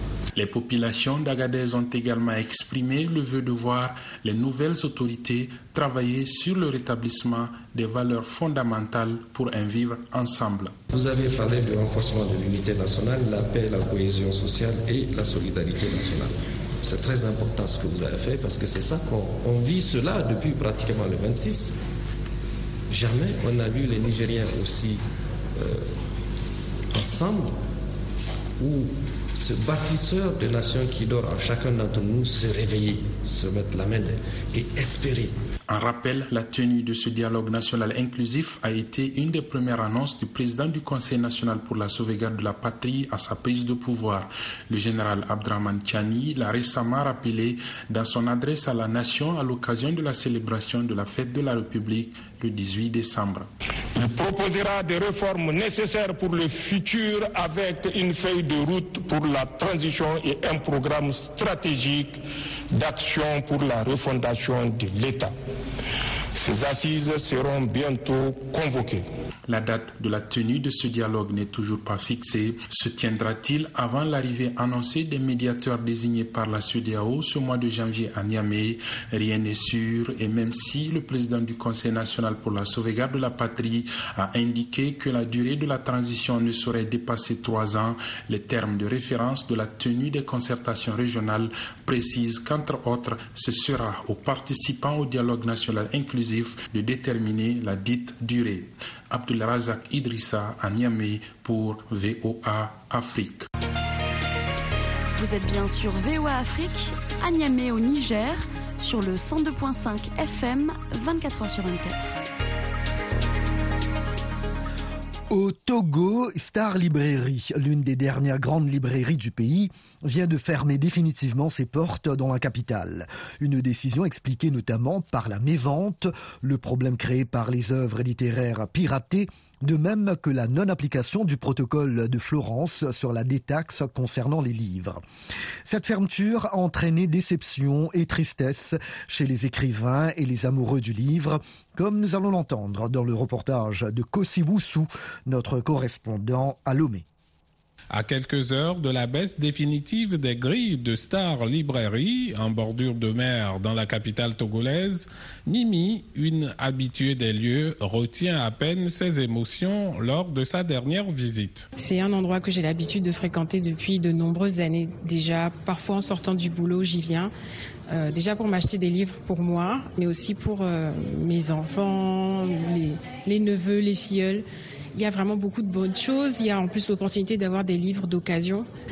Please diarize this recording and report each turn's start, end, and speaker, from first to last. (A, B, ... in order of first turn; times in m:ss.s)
0:00.3-0:10.7 A
0:10.9-0:21.8 B
0:22.9-0:26.0 B
0:26.9-0:27.6 B
0:28.6-0:35.4 B
0:35.7-0:53.5 A
0:54.0-1:05.3 C
1:06.4-1:09.0 C
1:09.5-1:43.5 A
1:45.2-1:52.0 D
1:55.3-2:15.0 E
2:15.6-2:27.0 E
2:27.9-2:41.7 F
2:41.8-2:47.3 G
2:47.9-2:58.7 G